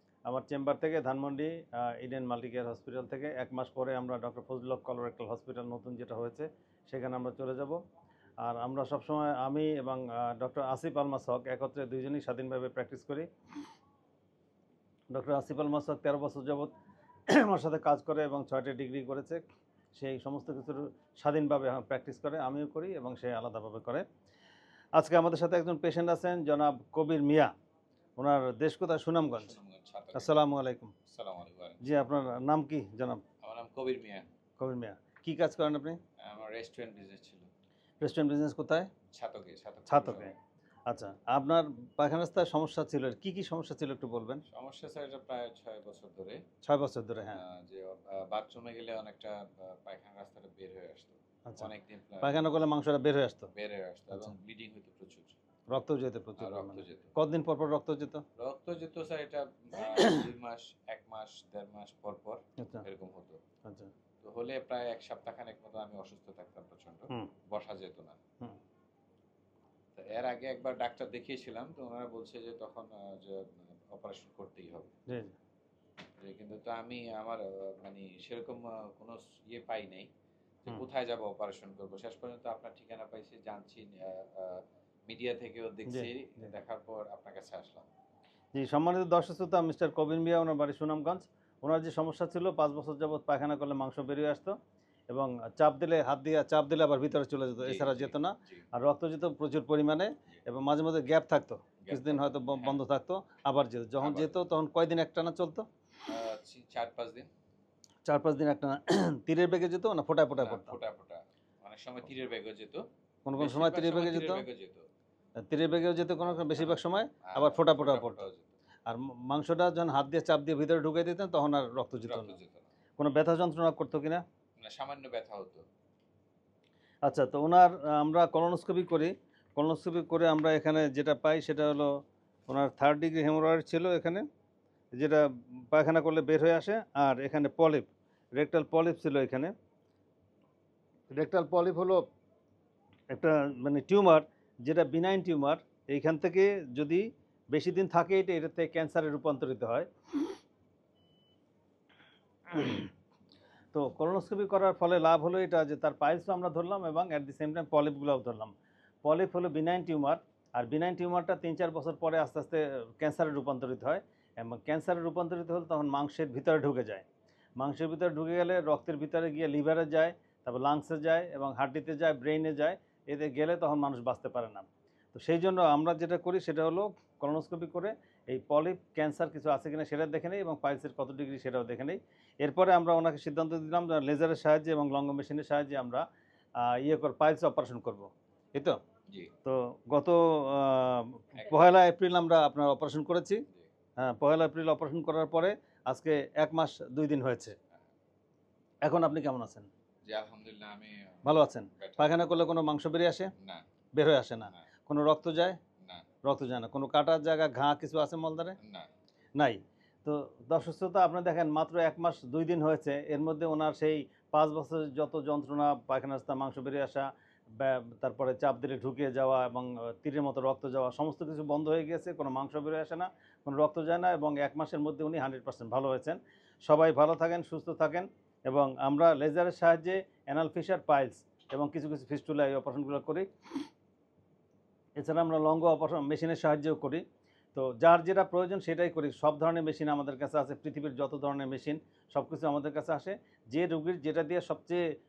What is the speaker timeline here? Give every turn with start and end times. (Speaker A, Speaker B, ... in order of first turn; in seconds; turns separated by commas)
Speaker A: 0.3-7.8, Speaker A: 8.4-13.3, Speaker A: 15.1-16.7, Speaker A: 17.3-19.4, Speaker A: 20.0-24.1, Speaker A: 25.0-27.5, Speaker A: 28.2-29.5, Speaker B: 29.4-30.4, Speaker A: 30.1-30.9, Speaker B: 31.1-31.9, Speaker A: 31.8-33.2, Speaker B: 33.4-34.3, Speaker A: 34.6-36.0, Speaker B: 36.2-37.5, Speaker A: 38.0-38.9, Speaker B: 39.1-40.3, Speaker A: 39.9-40.3, Speaker A: 40.9-44.4, Speaker B: 44.5-46.4, Speaker A: 46.6-47.4, Speaker B: 47.3-52.5, Speaker A: 52.2-53.5, Speaker B: 53.5-55.4, Speaker A: 55.7-58.2, Speaker B: 56.4-57.2, Speaker B: 58.4-63.4, Speaker A: 59.8-60.2, Speaker A: 62.6-62.9, Speaker A: 63.6-63.9, Speaker B: 64.2-68.2, Speaker B: 70.0-74.9, Speaker A: 75.1-75.3, Speaker B: 76.2-80.1, Speaker B: 80.6-87.8, Speaker A: 85.9-86.5, Speaker A: 88.5-94.5, Speaker A: 95.1-105.7, Speaker B: 97.6-98.7, Speaker B: 101.8-102.8, Speaker B: 104.0-104.3, Speaker B: 106.1-107.3, Speaker A: 108.0-110.8, Speaker B: 110.3-112.8, Speaker A: 113.2-114.4, Speaker B: 113.4-114.8, Speaker A: 115.4-118.2, Speaker B: 116.3-118.5, Speaker A: 118.8-122.3, Speaker B: 122.0-122.7, Speaker A: 123.0-124.2, Speaker B: 124.6-125.6, Speaker A: 127.0-131.9, Speaker A: 132.5-134.2, Speaker A: 134.9-139.5, Speaker A: 141.1-142.1, Speaker A: 143.1-149.9, Speaker A: 152.5-152.9, Speaker A: 153.7-158.5, Speaker A: 159.0-167.1, Speaker A: 167.6-186.0, Speaker A: 186.6-188.8, Speaker A: 189.4-193.4, Speaker B: 191.4-191.7, Speaker A: 194.0-197.6, Speaker A: 198.8-199.7, Speaker B: 200.1-202.3, Speaker A: 201.2-203.3, Speaker B: 203.4-203.6, Speaker A: 203.9-205.6, Speaker A: 206.2-208.6, Speaker B: 208.6-208.9, Speaker A: 209.4-233.3, Speaker A: 235.0-237.0, Speaker A: 237.6-244.8